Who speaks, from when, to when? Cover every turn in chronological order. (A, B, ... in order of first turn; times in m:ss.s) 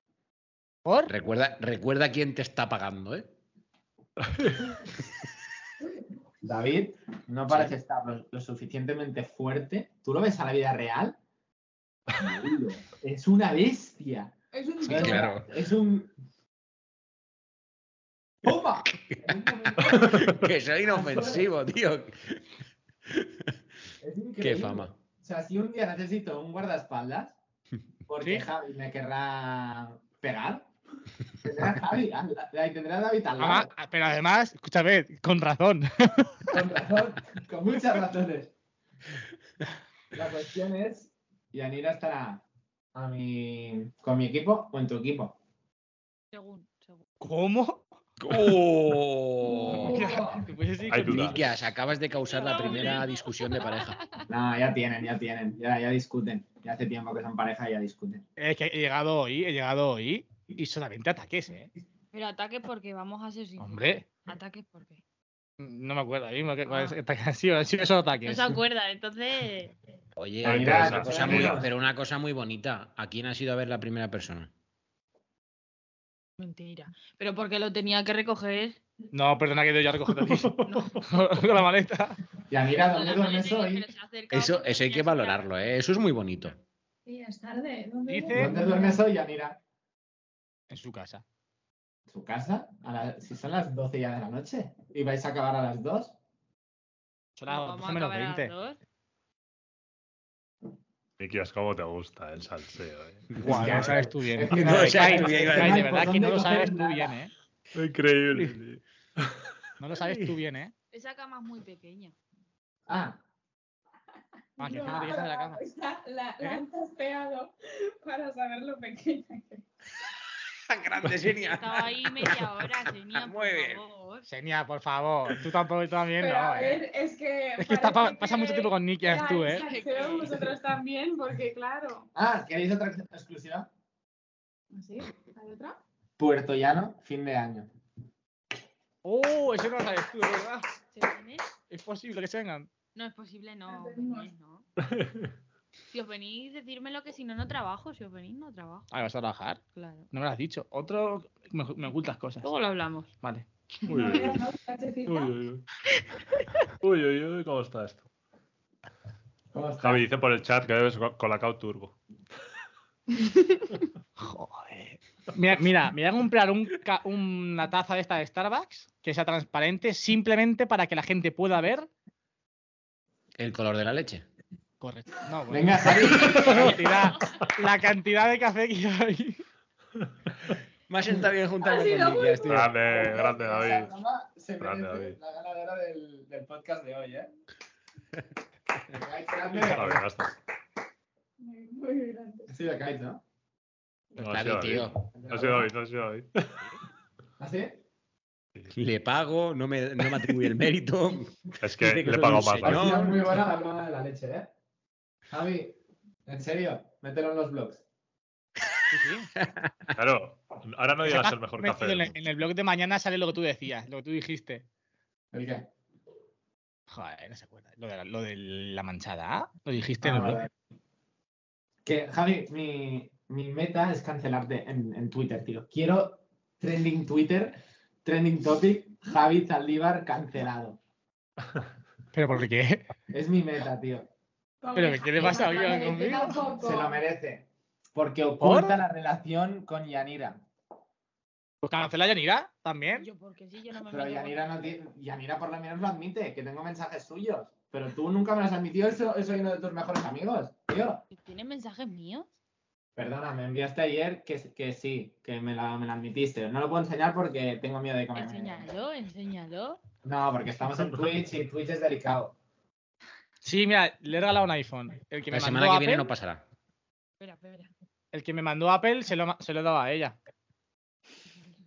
0:00.8-0:01.1 A
0:01.1-0:03.3 B
0:04.2-0:04.9 C
0:06.4-0:11.2 D
0:12.2-0:16.1 D
0:14.5-0:15.4 E
0:14.9-0:15.5 B
0:18.4-0:20.1 D
0:19.1-0:22.5 B
0:19.5-0:20.2 E
0:20.2-0:20.4 C
0:20.9-0:21.4 D
0:23.1-0:23.6 B
0:24.0-0:27.4 D
0:24.4-0:25.0 B
0:28.1-0:30.7 D
0:28.2-0:28.5 A
0:31.4-0:33.7 D
0:33.4-0:36.5 A
0:36.5-0:38.5 D
0:40.1-0:42.4 D
0:43.0-0:45.4 D
0:46.3-0:47.0 F
0:47.2-0:47.9 A
0:48.2-0:50.1 B
0:49.5-0:50.5 E
0:49.7-0:51.4 A
0:50.9-0:51.6 C
0:51.0-0:54.0 B
0:52.2-0:54.3 F
0:54.3-0:58.2 D
0:58.4-1:01.7 A
1:02.1-1:05.0 F
1:03.6-1:04.0 A
1:05.6-1:08.6 A
1:06.7-1:07.0 F
1:08.2-1:09.8 F
1:10.2-1:14.5 B
1:10.4-1:11.6 C
1:10.4-1:11.7 D
1:16.4-1:18.8 F
1:19.1-1:22.2 A
1:20.2-1:21.1 C
1:20.6-1:21.0 F
1:22.5-1:23.9 D
1:22.8-1:25.5 F
1:24.3-1:26.6 B
1:27.1-1:29.0 E
1:28.1-1:28.6 A
1:28.3-1:29.6 D
1:30.7-1:31.2 A
1:32.1-1:36.2 D
1:37.4-1:38.5 A
1:37.5-1:38.8 F
1:41.2-1:43.9 C
1:43.3-1:46.1 B
1:43.4-1:47.3 A
1:43.4-1:47.1 D
1:47.8-1:49.4 C
1:49.8-1:50.7 A
1:50.9-1:52.1 F
1:52.9-1:53.2 D
1:54.6-1:59.6 E
1:54.6-1:55.6 A
2:00.4-2:02.4 B
2:01.4-2:04.3 F
2:03.1-2:03.8 B
2:04.3-2:06.8 A
2:06.2-2:12.1 E
2:07.6-2:09.7 A
2:09.4-2:10.5 F
2:12.2-2:13.7 D
2:14.7-2:15.8 E
2:16.2-2:17.7 D
2:19.0-2:20.7 A
2:20.9-2:21.5 F
2:21.7-2:22.7 A
2:23.0-2:24.7 F
2:23.7-2:24.3 E
2:24.8-2:25.3 C
2:25.9-2:28.9 F
2:28.9-2:32.5 A
2:29.7-2:30.1 F
2:32.4-2:33.1 F
2:33.2-2:33.5 A
2:33.9-2:34.4 C
2:33.9-2:35.4 E
2:35.1-2:35.7 C
2:36.8-2:38.1 C
2:39.5-2:40.1 D
2:39.8-2:42.0 C
2:44.2-2:51.9 A
2:53.4-2:54.3 B
2:54.8-2:59.4 A
2:55.5-2:56.8 D
2:56.2-2:56.8 C
3:00.9-3:03.0 B
3:01.6-3:02.7 E
3:02.4-3:03.9 C
3:03.0-3:07.3 D
3:04.6-3:05.2 C
3:08.9-3:10.1 D
3:09.5-3:10.4 C
3:11.4-3:12.5 E
3:12.5-3:13.2 D
3:14.2-3:15.0 B
3:14.2-3:16.6 C
3:15.1-3:15.7 D
3:17.4-3:17.8 D
3:18.7-3:23.4 B
3:21.6-3:23.0 C
3:22.6-3:24.5 D
3:25.3-3:27.8 D
3:28.9-3:29.3 A
3:29.4-3:29.9 B
3:30.0-3:32.2 C
3:31.0-3:34.7 A
3:35.3-3:35.7 D
3:36.9-3:40.4 A
3:40.0-3:40.5 D
3:41.8-3:50.8 D
3:52.1-3:52.9 A
3:53.1-3:54.1 D
3:54.6-3:57.0 E
3:54.8-3:56.4 A
3:55.2-3:55.8 F
3:56.6-4:00.4 D
3:58.4-3:58.8 A
4:01.6-4:03.1 A
4:03.0-4:04.7 F
4:03.9-4:11.0 D
4:11.1-4:12.3 F
4:13.0-4:18.7 D
4:18.1-4:19.8 F
4:20.0-4:22.4 D
4:23.4-4:26.1 A
4:25.3-4:26.4 B
4:27.2-4:27.7 F
4:28.1-4:30.2 A